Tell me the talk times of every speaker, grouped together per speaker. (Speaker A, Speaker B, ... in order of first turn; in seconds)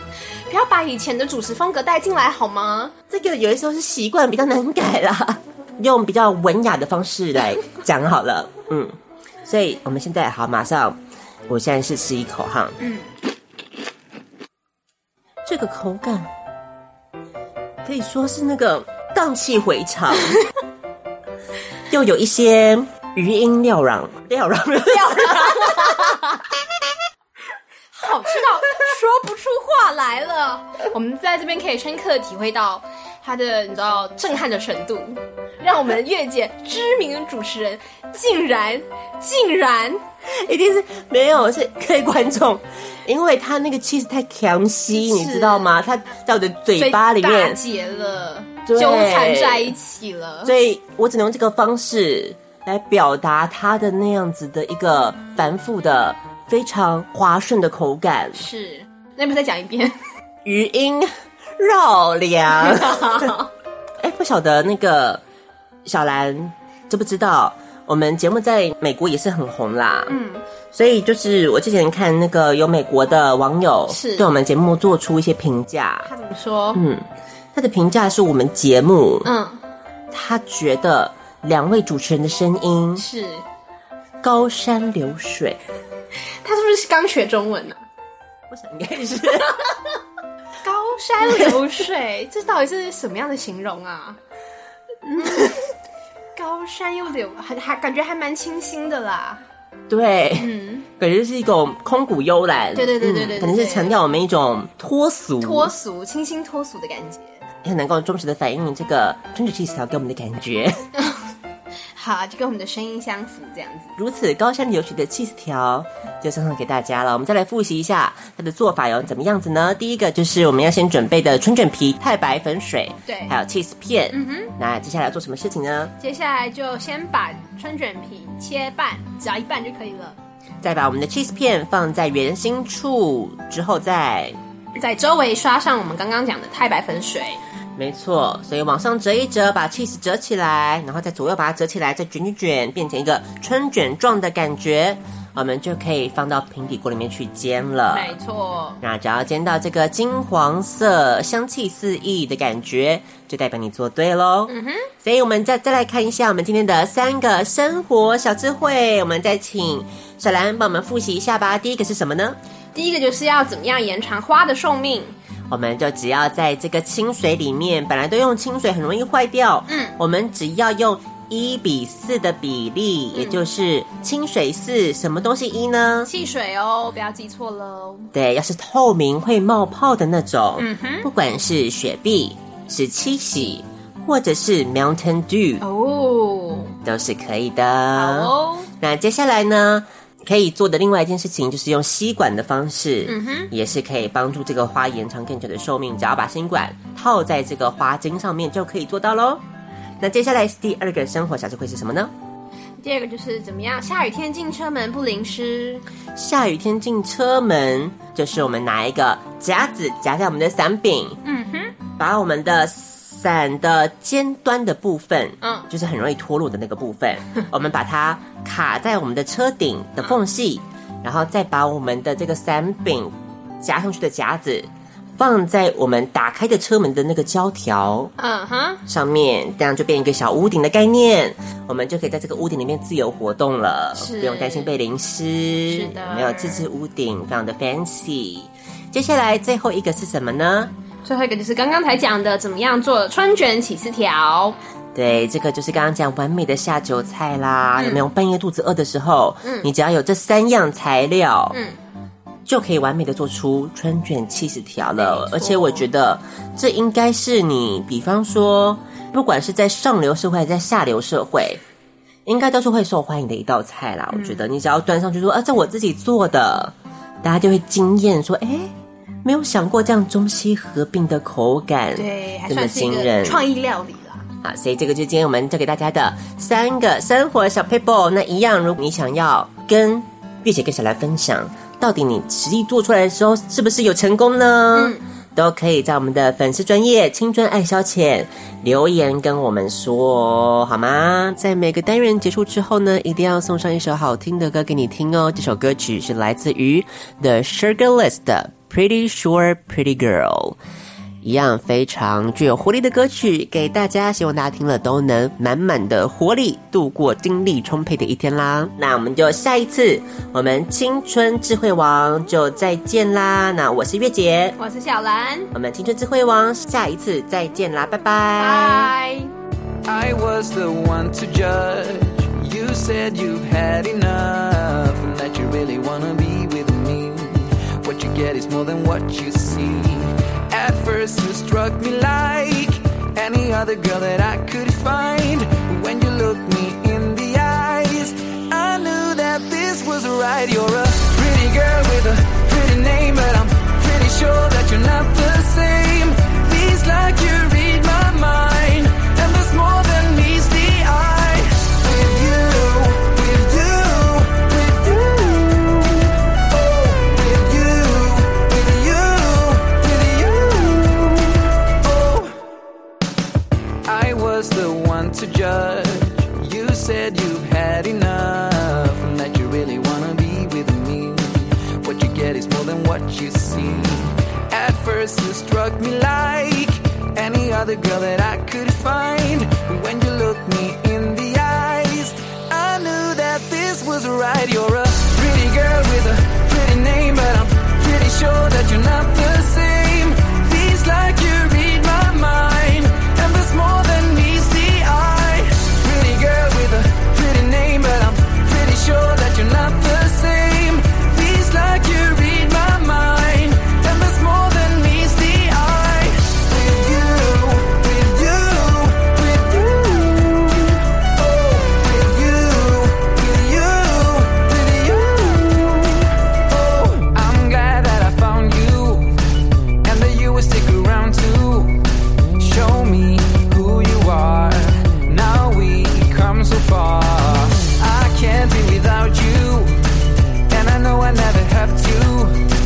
Speaker A: 0.5-2.9, 12.8-13.1, 24.8-26.4, 27.9-40.0, 44.9-45.8, 46.8-50.5, 58.3-60.0, 62.5-63.5, 70.1-70.4, 73.9-74.3, 76.0-76.8, 79.2-79.6, 83.0-83.4, 86.4-87.8, 89.3-89.7, 90.6-94.2, 95.2-95.5, 96.3-99.4, 100.4-100.9, 102.7-104.0, 105.4-107.4, 110.9-111.2, 111.9-113.9, 123.0-123.3, 124.1-124.5, 126.0-130.2, 134.8-137.4, 147.9-148.8, 154.5-154.9, 162.7-165.2, 169.7-169.9, 173.1-173.4, 176.0-178.1, 180.6-181.1, 185.6-186.8, 187.9-188.7, 193.1-193.5, 202.8-205.8, 211.2-211.8, 215.4-215.7, 228.2-228.8, 233.9-234.7, 235.7-236.7, 241.0-244.6, 247.8-248.0, 249.4-249.7, 251.5-251.8, 255.0-255.9, 264.1-264.5, 271.9-274.2, 284.7-285.0, 314.6-315.5, 318.4-319.3
Speaker B: 3.1-12.8, 15.4-16.3, 17.8-20.4, 21.9-26.0, 40.2-47.6, 48.6-49.7, 50.4-58.5, 60.4-63.3, 64.0-65.2, 65.8-70.2, 70.7-76.1, 76.7-79.3, 80.1-83.0, 84.2-85.6, 88.5-89.6, 91.2-91.5, 95.0-95.6, 99.9-105.7, 107.6-110.9, 114.0-125.9, 130.6-134.3, 137.8-148.2, 148.8-162.4, 165.5-176.1, 178.1-185.6, 186.8-199.4, 200.0-202.1, 206.2-211.2, 212.0-228.1, 228.8-240.7, 244.9-251.6, 252.4-261.6, 262.2-268.7, 269.2-273.4, 274.4-300.6, 301.2-314.6, 315.5-318.9
Speaker C: 319.8-362.4, 363.8-419.2, 419.8-421.8, 422.4-429.8, 430.5-432.4